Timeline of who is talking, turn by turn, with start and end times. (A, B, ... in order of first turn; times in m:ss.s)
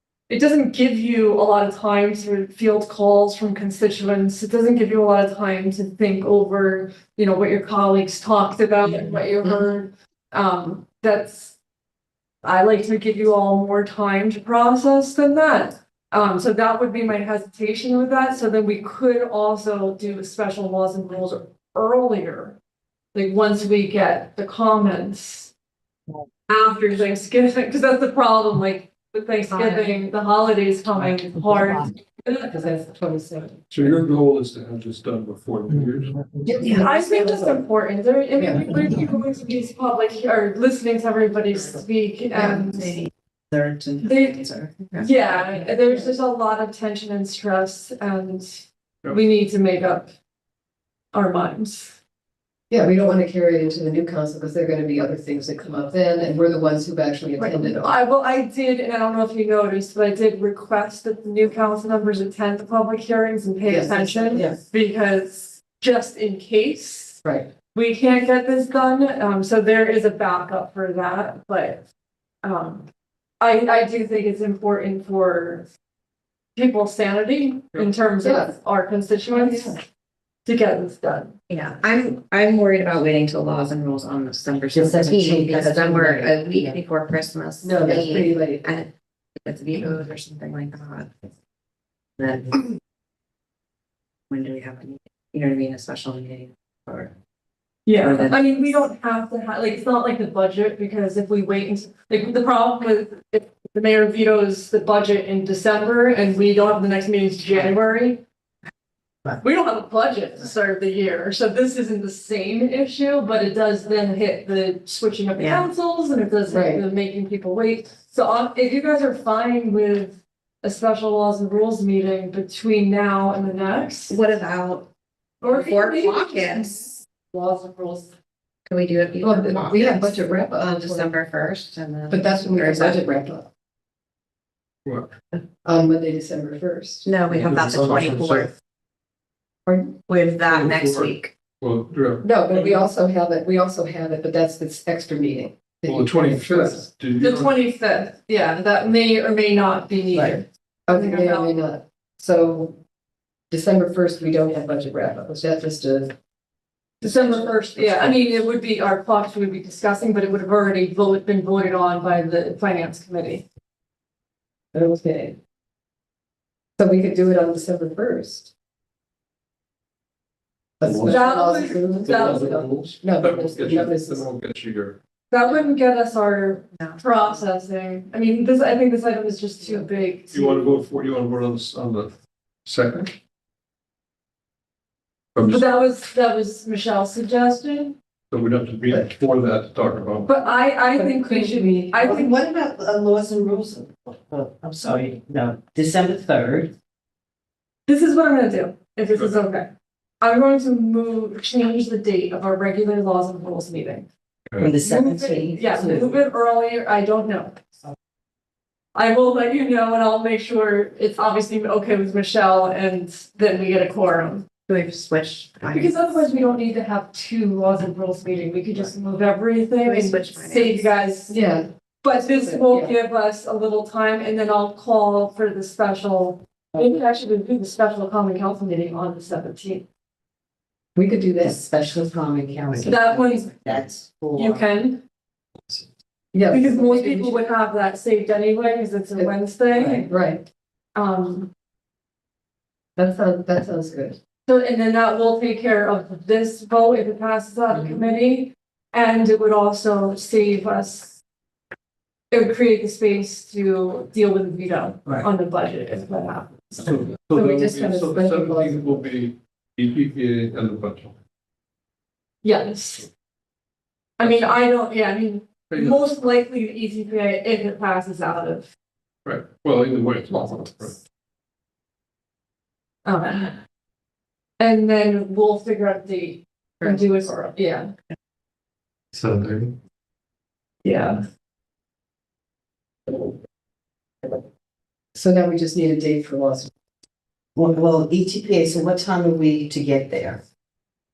0:00.3-0:11.6 A
0:12.4-0:22.6 A
0:23.1-0:25.5 A
0:26.5-0:32.5 A
0:29.5-0:29.9 B
0:32.5-0:33.6 C
0:33.7-0:36.3 D
0:36.4-0:37.6 C
0:36.7-0:43.0 A
0:38.4-0:38.6 C
0:42.3-0:43.1 B
0:43.5-0:44.0 E
0:44.0-0:50.1 A
0:44.2-0:45.7 B
0:51.1-0:52.0 A
0:52.7-0:57.9 C
0:57.4-1:07.2 A
1:03.6-1:04.5 C
1:07.2-1:07.5 C
1:07.7-1:11.8 A
1:12.4-1:12.9 A
1:13.4-1:15.7 A
1:16.6-1:19.8 A
1:18.2-1:18.5 C
1:19.3-1:19.8 C
1:20.4-1:21.3 A
1:21.5-1:28.9 B
1:24.7-1:26.8 E
1:27.6-1:28.7 C
1:29.4-1:31.3 B
1:32.2-1:32.7 B
1:34.3-1:37.1 B
1:37.8-1:48.2 A
1:38.0-1:38.6 B
1:49.4-2:04.2 A
1:55.4-1:55.7 B
1:56.5-1:56.8 C
2:04.1-2:04.9 B
2:05.4-2:08.1 A
2:05.4-2:07.0 B
2:08.7-2:13.0 B
2:09.2-2:11.1 C
2:12.1-2:13.5 C
2:14.8-2:15.1 D
2:15.6-2:17.1 C
2:17.0-2:18.5 B
2:17.3-2:18.5 D
2:19.7-2:19.9 C
2:20.1-2:21.3 B
2:20.5-2:22.3 D
2:22.2-2:26.8 C
2:22.5-2:22.8 E
2:25.8-2:27.6 D
2:27.2-2:31.6 A
2:30.9-2:32.8 C
2:33.5-2:36.1 C
2:37.0-2:38.4 C
2:37.0-2:43.4 A
2:44.7-2:45.4 C
2:46.8-2:48.5 C
2:50.8-2:54.3 C
2:50.8-2:51.2 D
2:51.0-2:52.5 A
2:51.9-2:55.0 D
2:55.3-3:00.7 A
3:00.3-3:02.1 D
3:02.6-3:03.1 D
3:05.3-3:05.7 D
3:05.5-3:08.0 A
3:08.3-3:10.4 D
3:10.2-3:12.4 A
3:10.9-3:12.0 C
3:12.0-3:16.7 E
3:17.9-3:24.1 A
3:24.5-3:24.7 D
3:24.6-3:26.2 E
3:24.8-3:27.6 A
3:28.9-3:34.5 A
3:34.7-3:36.3 B
3:35.7-3:41.4 A
3:39.8-3:40.9 B
3:41.3-3:42.9 C
3:42.0-3:49.8 A
3:51.0-3:51.6 C
3:51.4-3:54.7 E
3:52.8-3:53.5 A
3:54.3-3:55.0 A
3:56.3-3:57.5 C
3:56.5-4:00.0 A
3:59.2-4:00.4 C
4:00.9-4:01.5 A
4:03.0-4:04.2 C
4:04.5-4:11.2 A
4:12.3-4:17.0 A
4:16.8-4:21.1 D
4:17.3-4:19.1 C
4:22.4-4:23.1 A
4:24.2-4:28.7 A
4:24.2-4:24.6 D
4:25.7-4:26.0 D
4:29.2-4:31.0 D
4:30.3-4:30.9 A
4:33.0-4:33.6 A
4:34.6-4:37.9 A
4:39.1-4:39.8 D
4:40.8-4:41.2 A
4:45.1-4:46.7 C
4:47.6-4:50.4 E